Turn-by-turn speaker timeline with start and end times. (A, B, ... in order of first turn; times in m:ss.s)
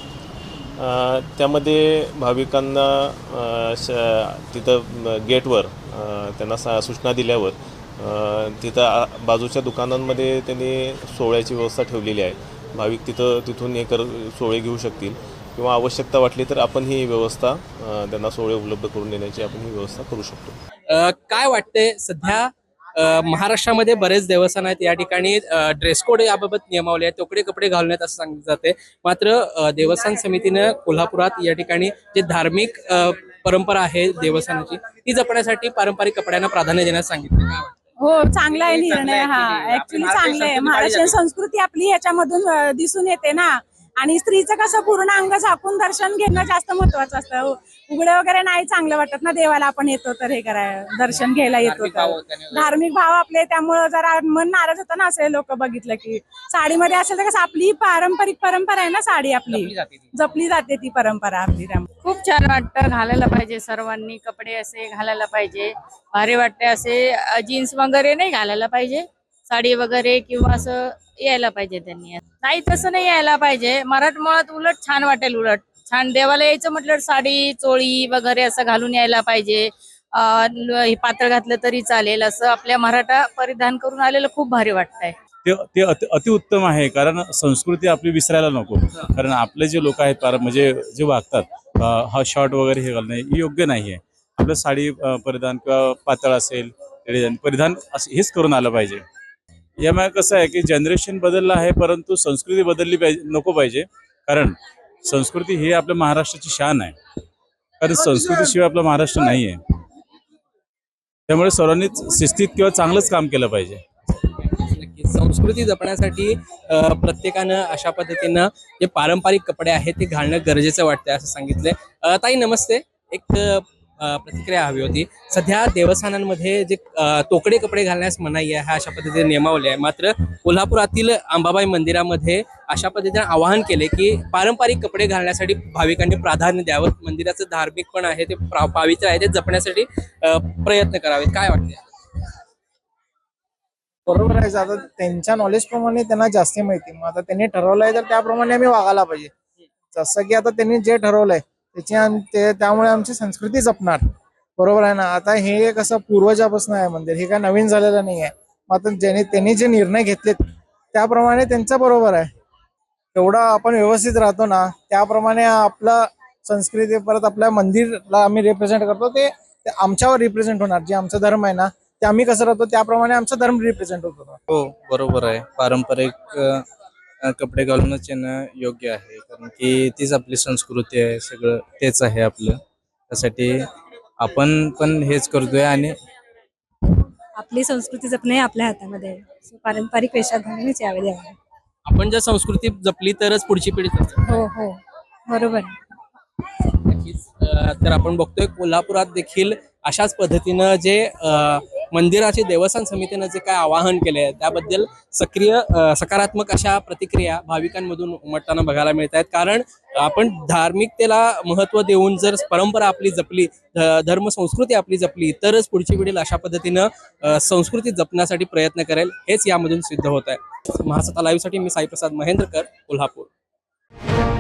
0:00.8-0:20.6 A
0:20.9-0:37.7 B
0:38.0-1:01.9 C
0:38.7-0:41.2 B
1:02.0-1:25.2 D
1:25.4-1:39.0 E
1:39.8-1:47.0 E
1:47.8-1:49.6 E
1:51.3-1:53.8 E
1:54.2-2:21.8 B
2:24.1-2:29.3 F
2:29.9-2:34.0 F
2:34.6-2:40.4 F
2:40.9-2:42.3 F
2:43.1-2:54.4 F
2:54.5-2:56.6 G
2:57.2-3:02.6 G
3:03.1-3:03.6 G
3:04.2-3:05.9 G
3:07.4-3:11.4 H
3:11.9-3:14.4 B
3:14.3-3:15.8 H
3:16.7-3:43.3 B